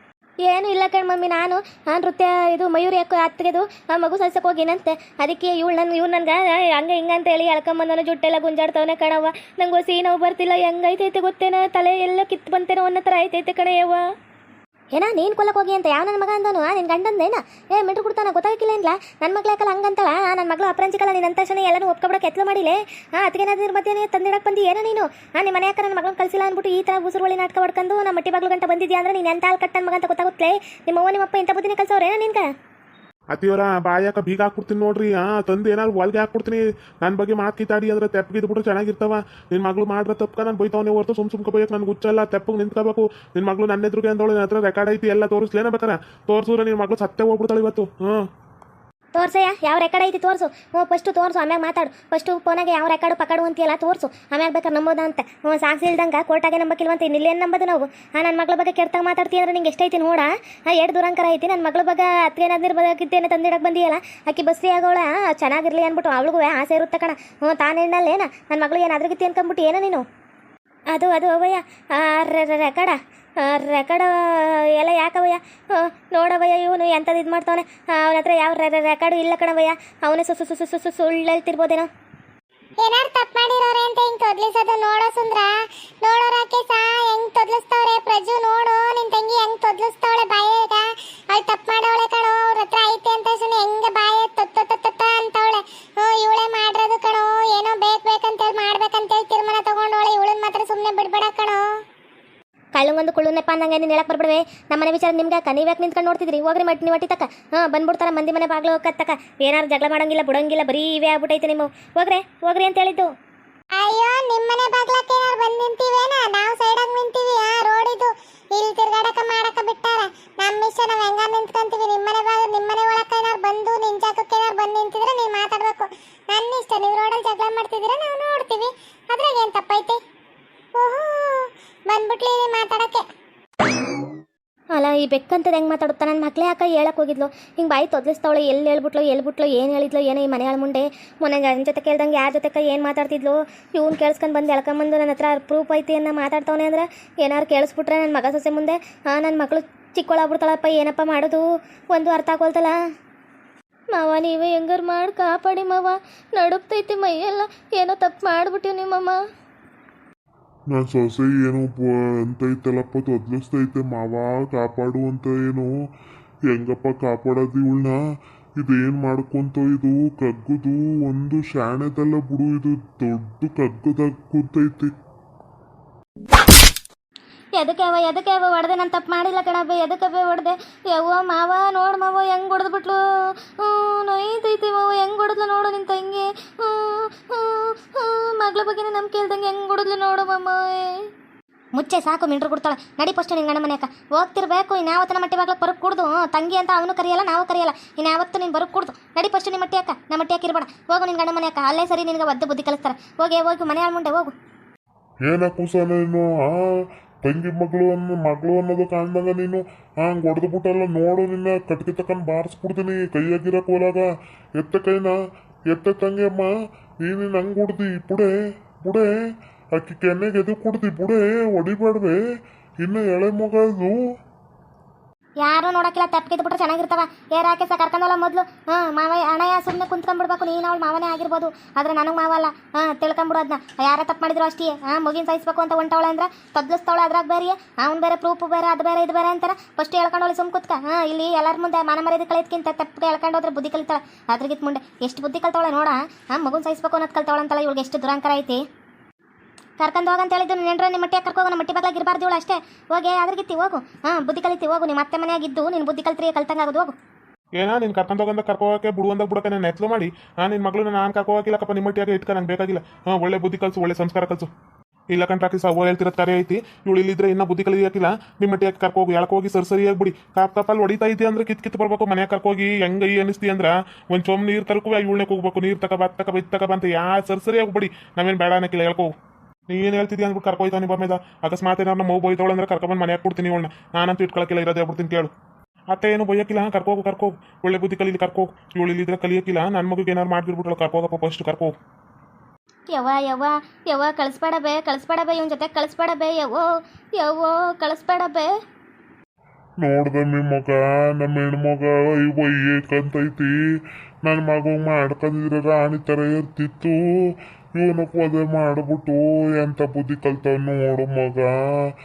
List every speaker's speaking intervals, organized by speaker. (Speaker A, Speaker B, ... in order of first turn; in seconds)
Speaker A: 0.5-14.1, 14.9-32.5, 49.1-70.0, 70.9-81.9, 102.8-113.1, 134.8-152.8, 153.9-159.2, 177.6-183.0, 183.6-191.0, 191.8-204.3, 225.4-248.6, 249.8-256.9, 292.9-298.5
Speaker B: 33.3-48.3, 257.6-264.5, 265.1-279.1, 279.7-285.3, 285.9-291.8
Speaker C: 82.8-85.5, 86.0-101.6, 113.8-130.0, 130.8-133.0
Speaker D: 160.7-165.8, 166.5-168.0, 168.6-174.9, 205.3-206.6, 207.2-215.2, 215.7-216.5, 217.0-219.1, 219.8-222.2, 222.8-224.0, 299.8-303.6, 304.2-307.0, 307.8-311.6